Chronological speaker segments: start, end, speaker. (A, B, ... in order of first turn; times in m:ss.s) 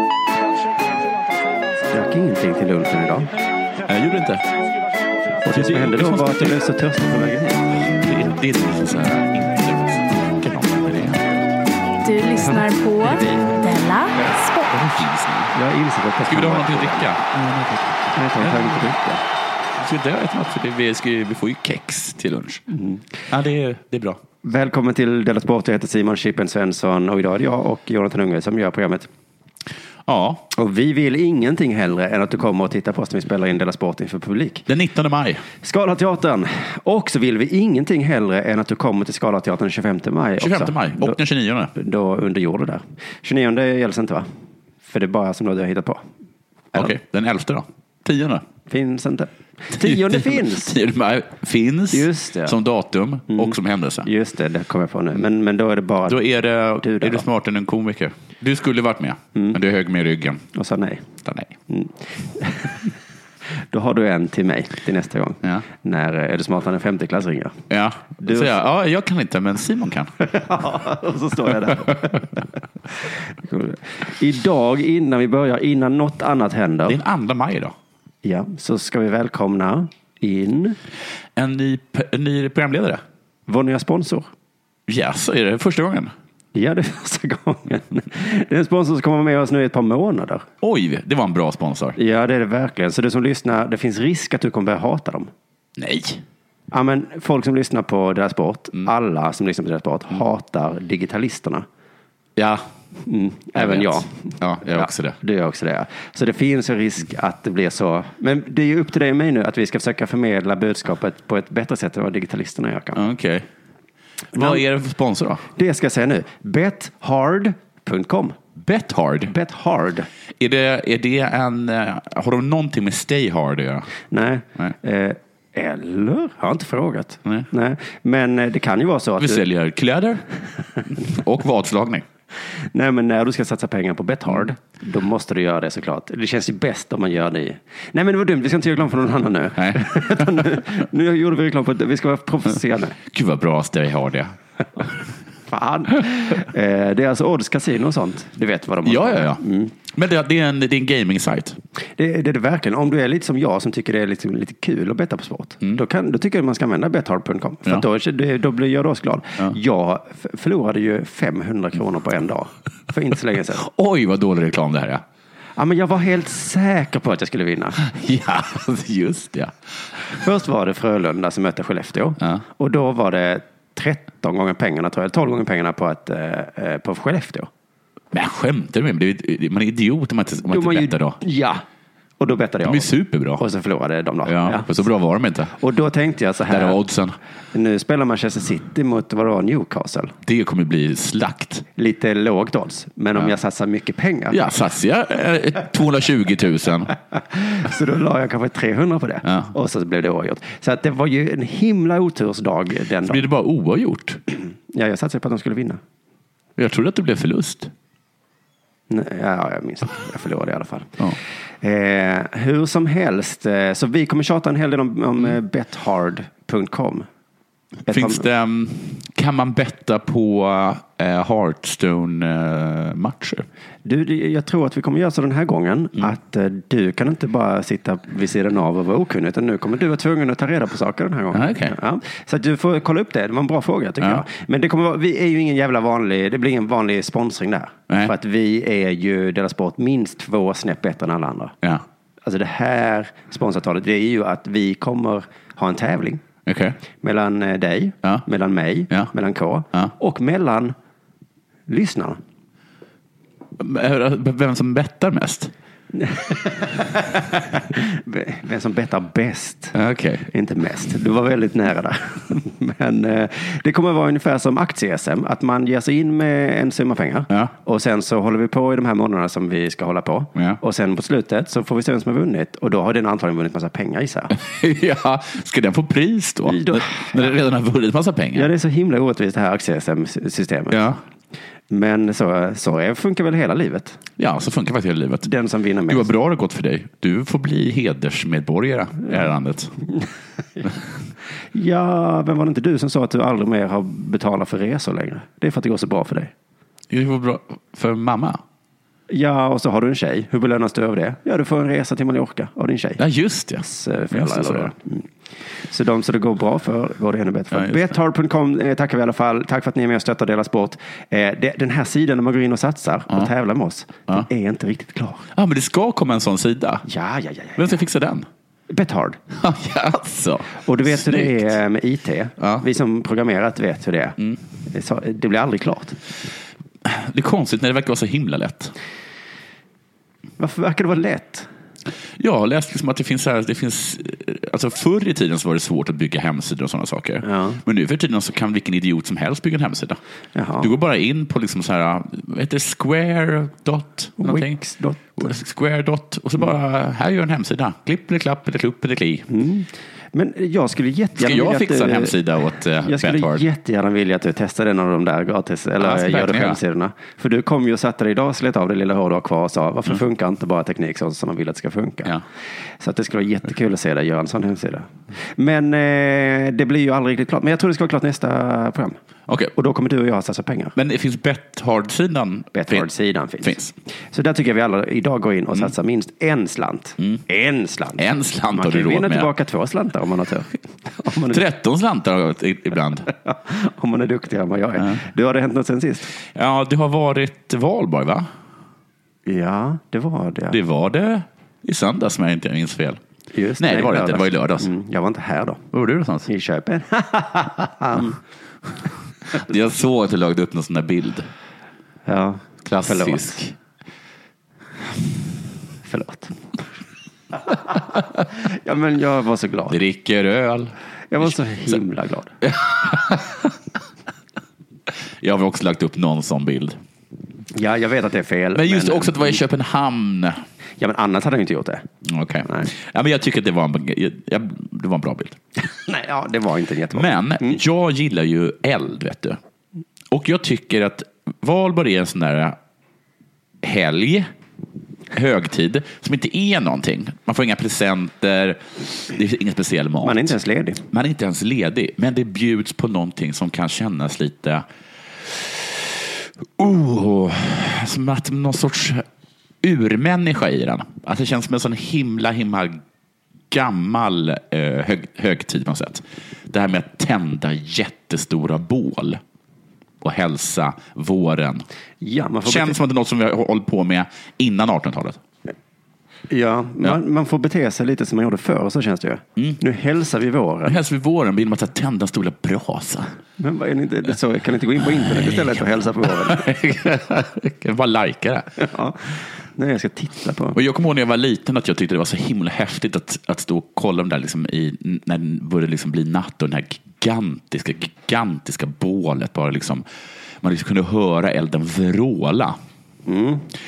0:01.9-0:03.3 A
0:03.9-0:04.4 B
0:05.4-0:07.7 A
0:05.5-0:06.6 B
0:08.0-0:11.4 B
0:12.0-0:14.7 C
0:12.4-0:13.6 A
0:14.7-0:15.5 B
0:15.5-0:17.1 A
0:16.2-0:18.7 B
0:18.1-0:19.2 A
0:19.8-0:22.6 B
0:22.7-0:23.0 A
0:23.3-0:24.2 B
0:24.4-0:29.1 A
0:30.0-0:30.5 B
0:30.5-0:34.7 A
0:34.7-0:35.4 B
0:35.6-0:41.2 A
0:40.4-0:41.7 B
0:41.7-0:44.3 A
0:44.9-0:46.0 A
0:46.7-0:48.4 B
0:48.7-0:50.8 A
0:49.7-0:54.1 B
0:51.9-0:52.6 A
0:53.3-0:56.2 A
0:56.1-1:00.4 B
0:56.8-0:57.2 A
1:00.5-1:01.1 A
1:01.2-1:01.6 B
1:01.7-1:02.9 A
1:03.6-1:07.6 A
1:07.7-1:10.1 B
1:08.2-1:08.6 A
1:10.2-1:12.4 A
1:13.0-1:17.0 A
1:16.9-1:17.8 B
1:18.2-1:20.8 A
1:21.4-1:23.0 B
1:23.5-1:24.3 A
1:24.9-1:26.1 B
1:26.5-1:30.5 A
1:30.6-1:32.0 B
1:32.0-1:35.3 A
1:35.8-1:36.2 B
1:36.7-1:41.7 A
1:42.4-1:42.6 B
1:43.1-1:53.0 A
1:43.6-1:45.2 B
1:53.0-1:53.5 B
1:54.3-1:55.4 B
1:54.3-1:54.6 A
1:55.6-1:58.4 A
1:58.6-1:59.3 B
1:59.3-2:00.1 A
2:00.4-2:03.9 B
2:04.1-2:09.4 A
2:09.2-2:10.2 B
2:10.8-2:12.0 B
2:12.4-2:23.0 A
2:19.6-2:20.0 B
2:23.1-2:24.4 B
2:25.5-2:29.7 A
2:28.8-2:31.6 B
2:32.0-2:43.6 A
2:43.6-2:45.0 B
2:45.6-2:47.8 A
2:47.8-2:49.7 B
2:50.1-2:57.5 A
2:58.1-3:01.2 B
3:00.5-3:01.6 A
3:02.2-3:04.7 A
3:02.6-3:03.4 B
3:04.3-3:05.6 B
3:05.6-3:06.8 A
3:06.5-3:07.2 B
3:07.5-3:10.2 A
3:10.3-3:11.7 B
3:11.8-3:14.4 A
3:14.3-3:16.9 B
3:17.2-3:23.2 A
3:23.0-3:24.2 B
3:24.7-3:25.8 A
3:26.6-3:27.7 B
3:28.9-3:31.0 A
3:31.6-3:37.1 A
3:37.9-3:38.2 A
3:37.9-3:43.5 B
3:43.8-4:01.6 A
3:51.3-3:51.8 B
4:02.2-4:06.2 A
4:06.5-4:06.8 B
4:07.0-4:10.8 A
4:11.7-4:12.2 A
4:13.6-4:15.5 B
4:15.9-4:19.8 A
4:19.7-4:20.3 B
4:20.3-4:34.3 A
4:34.3-4:38.5 B
4:36.5-4:37.3 A
4:38.4-4:40.9 A
4:40.7-4:41.0 B
4:41.7-4:44.0 A
4:44.2-4:45.3 B
4:45.2-4:46.1 A
4:45.9-4:49.7 B
4:51.5-4:56.3 A
4:56.9-4:58.4 B
4:59.1-5:03.0 A
5:03.0-5:04.7 B
5:03.6-5:05.1 A
5:05.7-5:15.3 A
5:07.5-5:07.9 B
5:15.4-5:16.8 B
5:16.8-5:17.8 A
5:17.6-5:18.3 B
5:18.7-5:19.2 A
5:19.3-5:21.5 B
5:20.6-5:26.0 A
5:26.8-5:28.7 B
5:30.4-5:31.5 A
5:32.2-5:40.0 B
5:37.2-5:37.6 A
5:40.4-5:40.7 A
5:40.6-5:44.6 B
5:44.2-5:45.3 A
5:45.2-5:49.3 B
5:49.3-5:52.2 A
5:51.2-5:53.4 B
5:52.8-6:02.2 A
5:55.8-5:56.6 B
6:02.8-6:09.0 A
6:09.3-6:09.5 B
6:09.6-6:10.8 A
6:10.8-6:12.9 B
6:12.5-6:13.6 A
6:13.4-6:13.7 B
6:14.1-6:21.4 A
6:18.0-6:19.3 B
6:21.3-6:23.1 B
6:23.2-6:26.2 A
6:26.3-6:28.3 B
6:29.3-6:30.6 A
6:30.5-6:33.0 B
6:33.3-6:35.6 A
6:33.6-6:34.7 B
6:35.7-6:36.3 B
6:36.3-6:38.2 A
6:39.3-6:41.3 B
6:42.1-6:43.5 A
6:42.6-6:43.5 B
6:45.8-6:46.4 A
6:47.5-6:49.8 A
6:49.7-6:51.3 B
6:51.1-6:52.3 A
6:52.4-6:53.5 B
6:55.2-6:56.8 B
6:57.5-6:59.4 A
6:58.5-7:00.4 B
7:00.8-7:01.9 A
7:02.0-7:05.4 B
7:05.7-7:07.6 A
7:06.9-7:09.4 B
7:10.1-7:12.6 B
7:13.6-7:14.3 B
7:15.1-7:20.3 B
7:20.0-7:20.8 A
7:20.9-7:24.6 B
7:25.2-7:29.0 B
7:29.6-7:32.8 B
7:33.5-7:39.2 B
7:40.0-7:41.7 B
7:42.0-7:42.8 A
7:42.4-7:45.2 B
7:46.3-7:50.8 A
7:50.7-7:53.2 B
7:53.4-7:56.4 A
7:55.0-7:58.6 B
7:58.6-8:00.6 A
8:00.6-8:09.8 B
8:10.4-8:12.6 B
8:13.1-8:13.5 A